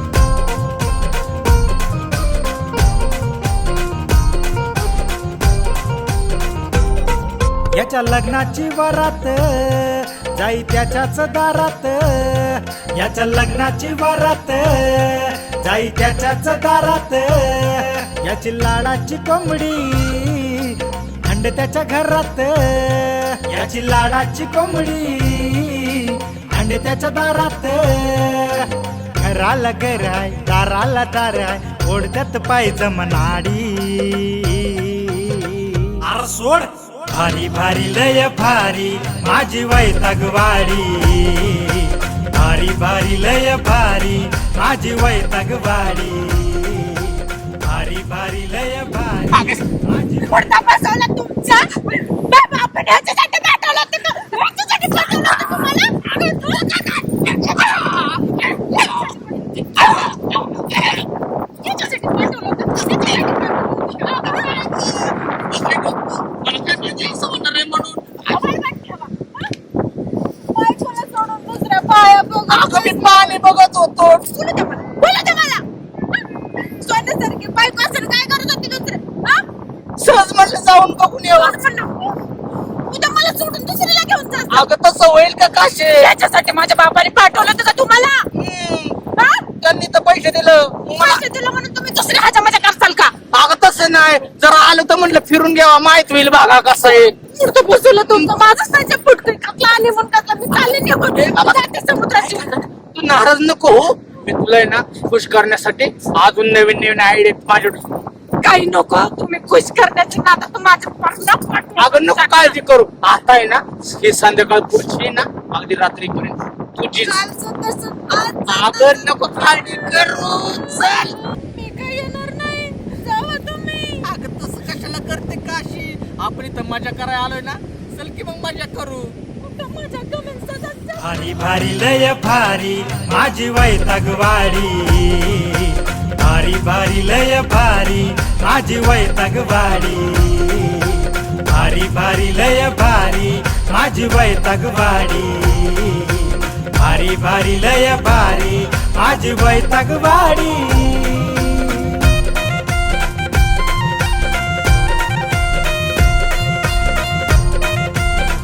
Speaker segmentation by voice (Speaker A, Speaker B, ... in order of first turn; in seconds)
Speaker A: 7.7-50.3, 131.0-152.1
Speaker B: 49.3-49.6, 50.2-60.3, 61.6-64.9, 68.2-69.4, 70.5-73.4, 74.2-75.6, 76.8-79.4, 81.3-82.1, 82.9-84.7, 86.0-88.2, 89.2-89.5, 90.8-93.2, 96.9-102.6, 108.4-112.6, 116.9-124.0, 129.4-131.1
Speaker C: 64.9-68.3, 72.5-74.3, 80.0-81.6, 84.5-86.1, 88.3-89.1, 89.6-91.2, 93.3-97.3, 98.0-98.3, 101.1-101.6, 102.1-108.0, 111.8-117.2, 118.1-121.2, 124.0-129.1